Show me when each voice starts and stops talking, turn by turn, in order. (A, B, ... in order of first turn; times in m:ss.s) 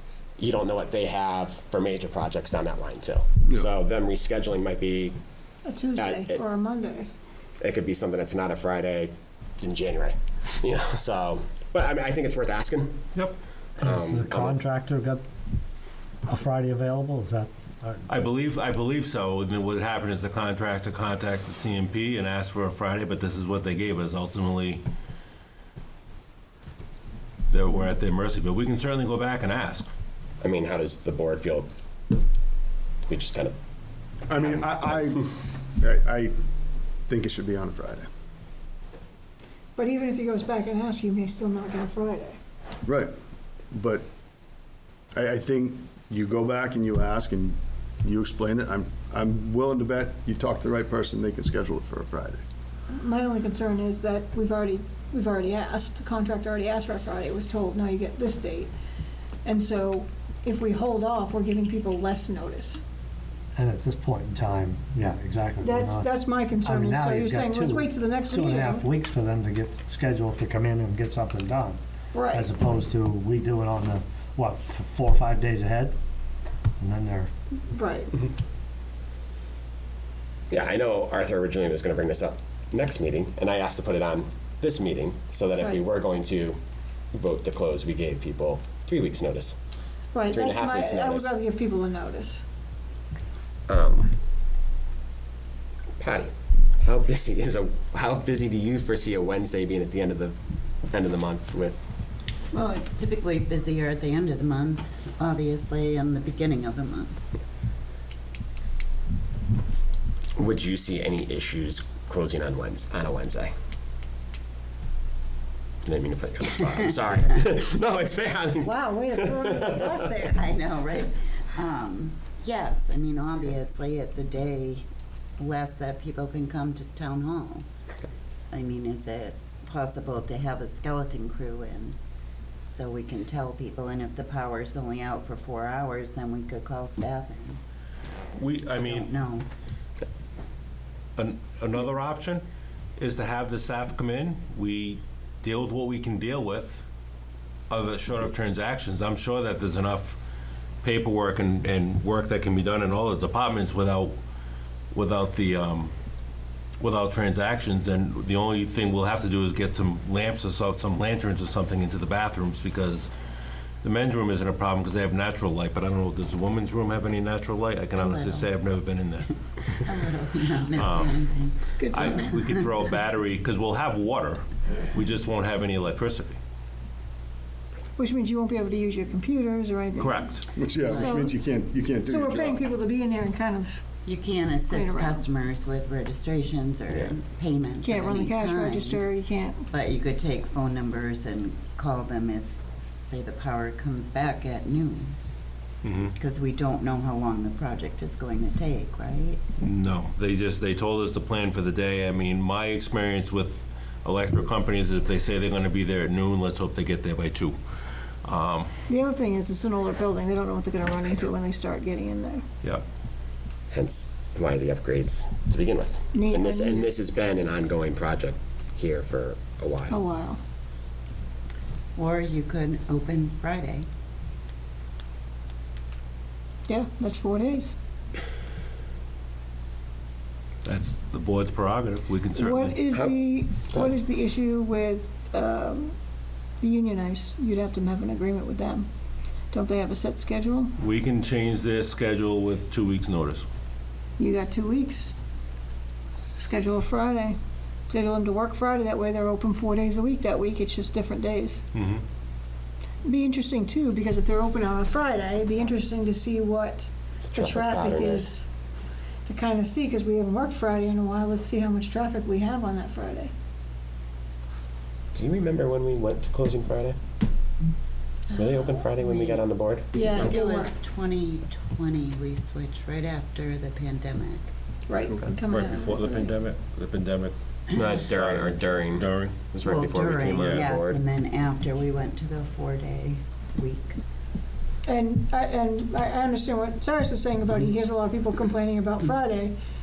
0:00.4-0:05.2 A
0:05.6-0:07.1 B
0:06.0-0:06.4 A
0:07.6-0:13.0 A
0:13.8-0:14.6 A
0:13.8-0:15.2 C
0:16.3-0:18.0 C
0:18.1-0:24.8 D
0:27.5-0:29.9 D
0:30.4-0:31.7 A
0:33.1-0:33.6 A
0:34.3-0:36.3 E
0:37.1-0:38.1 E
0:39.8-0:42.4 B
0:42.8-0:43.1 E
0:43.7-0:44.0 E
0:45.1-0:52.4 E
0:52.9-0:58.7 B
0:59.4-1:02.8 B
1:03.6-1:16.0 C
1:05.6-1:08.8 B
1:12.1-1:12.5 B
1:16.8-1:17.3 C
1:17.7-1:18.1 B
1:20.5-1:26.6 A
1:27.1-1:29.6 A
1:30.1-1:32.4 B
1:30.3-1:31.3 A
1:33.7-1:34.1 A
1:36.0-1:40.4 A
1:40.9-1:41.8 A
1:42.5-1:47.2 F
1:50.4-1:53.5 A
1:55.8-2:00.0 A
1:58.6-2:00.2 B
1:59.9-2:04.9 F
2:05.4-2:07.6 F
2:08.5-2:12.0 F
2:12.7-2:17.6 F
2:18.4-2:19.1 D
2:18.7-2:19.5 F
2:21.2-2:22.4 D
2:23.0-2:26.8 D
2:27.7-2:30.2 D
2:30.8-2:34.2 D
2:34.9-2:35.9 D
2:36.8-2:43.1 D
2:43.8-2:49.9 D
2:48.0-2:48.6 F
2:49.8-2:52.9 F
2:50.8-2:51.2 D
2:51.8-2:52.1 B
2:51.9-2:56.4 D
2:58.0-3:01.3 B
3:00.0-3:00.4 D
3:00.6-3:02.6 E
3:00.8-3:01.3 F
3:02.0-3:03.8 B
3:04.0-3:09.1 F
3:04.7-3:05.2 B
3:07.8-3:09.7 B
3:09.7-3:15.2 F
3:15.8-3:16.2 D
3:16.2-3:19.4 F
3:19.6-3:27.6 D
3:28.2-3:28.7 D
3:28.9-3:32.4 B
3:33.7-3:40.0 A
3:36.1-3:36.9 B
3:39.9-3:40.4 B
3:42.0-3:43.9 F
3:46.7-3:47.7 B
3:50.6-3:52.8 D
3:52.3-3:56.0 B
3:52.9-3:53.9 A
3:56.6-3:58.9 B
3:59.5-4:00.7 B
4:00.8-4:03.5 D
4:04.2-4:05.1 B
4:06.4-4:07.4 B
4:07.9-4:11.6 B
4:11.7-4:12.0 D
4:13.1-4:18.4 B
4:17.3-4:18.3 A
4:19.2-4:23.3 B
4:25.1-4:27.0 A
4:28.3-4:29.9 A
4:29.0-4:29.4 F
4:29.9-4:30.8 B
4:30.0-4:34.5 F
4:34.9-4:36.3 B
4:35.5-4:39.5 D
4:37.7-4:41.0 A
4:39.6-4:44.0 F
4:40.2-4:40.7 D
4:44.9-4:49.6 B